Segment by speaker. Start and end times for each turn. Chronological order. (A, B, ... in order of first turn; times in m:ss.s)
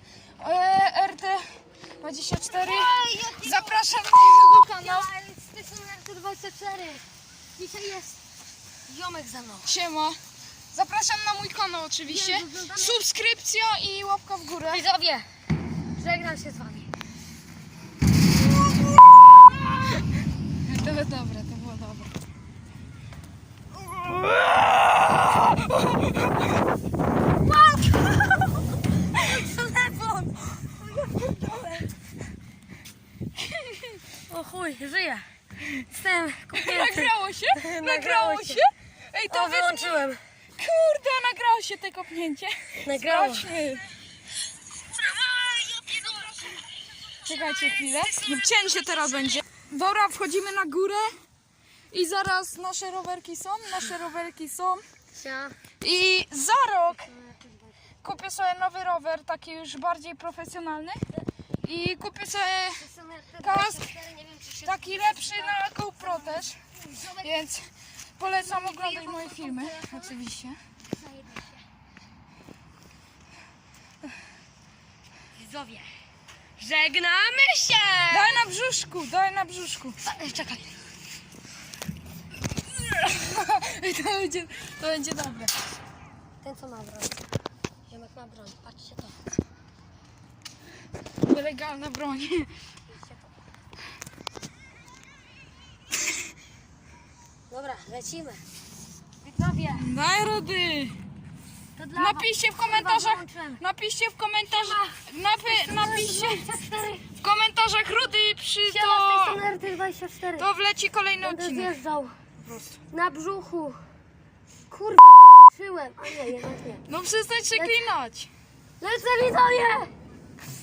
0:00.4-0:05.1 A
0:02.4-0:07.0 B
0:07.6-0:08.2 B
0:08.9-0:09.7 B
0:09.6-0:10.2 A
0:10.7-0:14.8 A
0:12.0-0:13.0 B
0:14.7-0:15.3 B
0:16.0-0:16.9 B
0:20.6-0:22.1 A
0:27.4-0:28.4 B
0:29.1-0:31.9 B
0:33.4-0:34.0 A
0:34.3-0:35.3 B
0:35.9-0:38.6 B
0:36.5-0:40.0 A
0:39.3-0:40.2 B
0:40.6-0:43.9 A
0:42.8-0:43.5 B
0:45.1-0:46.6 B
0:47.1-0:48.1 B
0:47.2-0:51.2 A
0:51.9-0:54.8 A
0:55.1-0:55.6 B
0:55.8-0:57.1 A
0:57.1-0:57.8 B
0:58.0-1:01.0 A
1:01.6-1:02.8 A
1:02.8-1:07.4 B
1:03.4-1:03.9 A
1:04.6-1:06.6 A
1:07.2-1:10.6 A
1:08.2-1:10.2 B
1:10.8-1:11.6 B
1:15.3-1:16.0 B
1:16.6-1:18.4 B
1:18.1-1:20.0 A
1:20.0-1:20.8 B
1:22.7-1:25.5 A
1:26.4-1:27.2 B
1:27.9-1:29.2 B
1:31.2-1:32.6 A
1:32.9-1:33.3 B
1:37.5-1:38.4 B
1:39.2-1:39.9 B
1:39.8-1:41.0 A
1:41.8-1:43.6 B
1:42.0-1:46.5 A
1:44.5-1:47.1 B
1:47.2-1:49.4 A
1:48.7-1:50.5 B
1:50.4-1:51.8 A
1:51.2-1:52.2 B
1:52.4-1:52.8 A
1:52.9-1:53.8 B
1:54.7-1:56.8 B
1:56.9-1:58.3 A
1:57.5-1:57.8 B
1:58.8-1:59.9 B